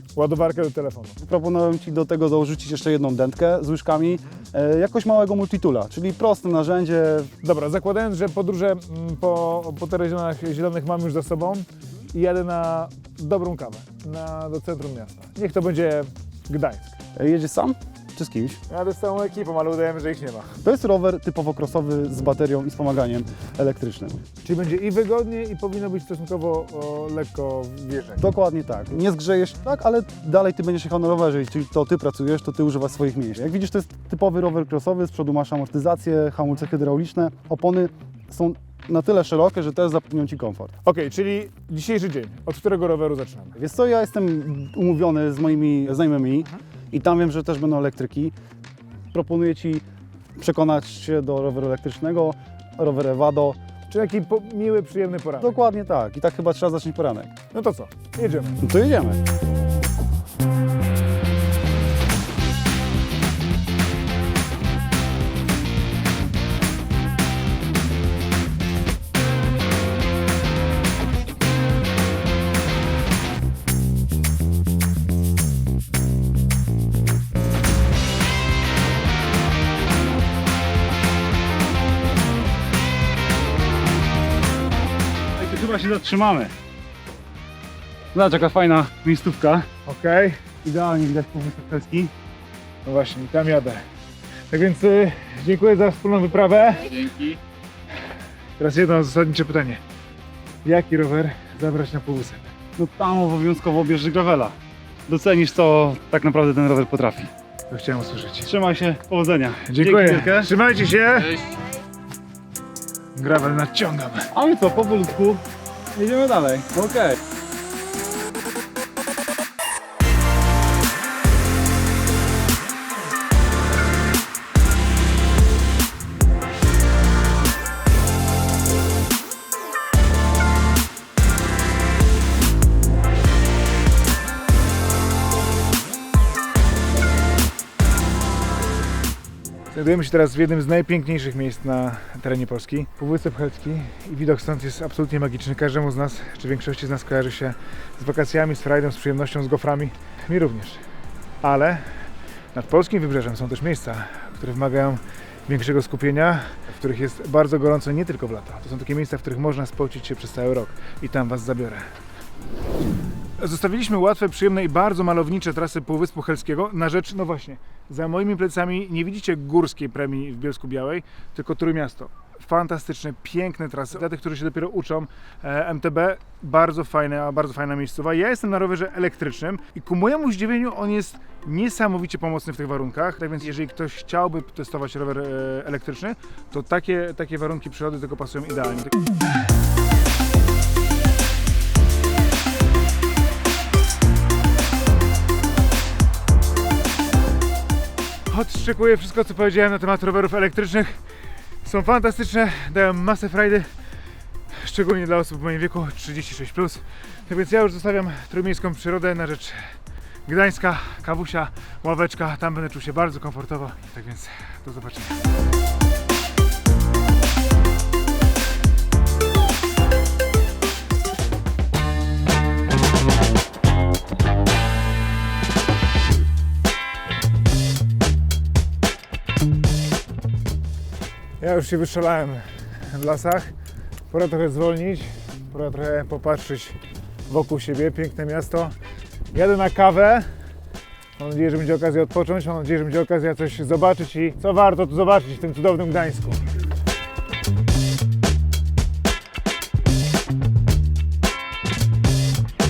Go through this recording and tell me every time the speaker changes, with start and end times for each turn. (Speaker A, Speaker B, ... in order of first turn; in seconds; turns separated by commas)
Speaker A: 0.1-1.1, Speaker B: 1.2-7.3, Speaker A: 7.4-17.0, Speaker B: 17.1-18.6, Speaker A: 18.7-20.6, Speaker B: 20.6-24.2, Speaker A: 24.4-28.2, Speaker B: 28.2-40.8, Speaker A: 40.8-43.5, Speaker B: 43.5-48.3, Speaker B: 49.1-49.8, Speaker B: 50.4-53.6, Speaker A: 53.9-55.6, Speaker B: 55.4-57.3, Speaker A: 57.5-58.6, Speaker B: 58.6-59.2, Speaker B: 85.3-86.5, Speaker B: 88.1-89.7, Speaker A: 89.8-90.4, Speaker B: 90.6-92.1, Speaker A: 92.8-93.8, Speaker A: 94.5-97.4, Speaker A: 98.6-99.8, Speaker A: 100.6-102.5, Speaker B: 102.8-104.5, Speaker B: 105.1-107.3, Speaker A: 107.7-108.5, Speaker B: 108.4-110.5, Speaker A: 109.7-111.5, Speaker A: 113.2-114.3, Speaker B: 114.3-115.4, Speaker B: 115.9-117.2, Speaker A: 139.7-150.8, Speaker A: 151.4-152.0, Speaker A: 152.5-161.8, Speaker A: 163.4-189.1, Speaker A: 198.3-201.0, Speaker A: 201.6-203.7, Speaker A: 204.5-215.2, Speaker A: 231.4-233.5, Speaker A: 234.1-236.7, Speaker A: 237.3-238.7, Speaker A: 239.3-240.3, Speaker A: 241.2-246.4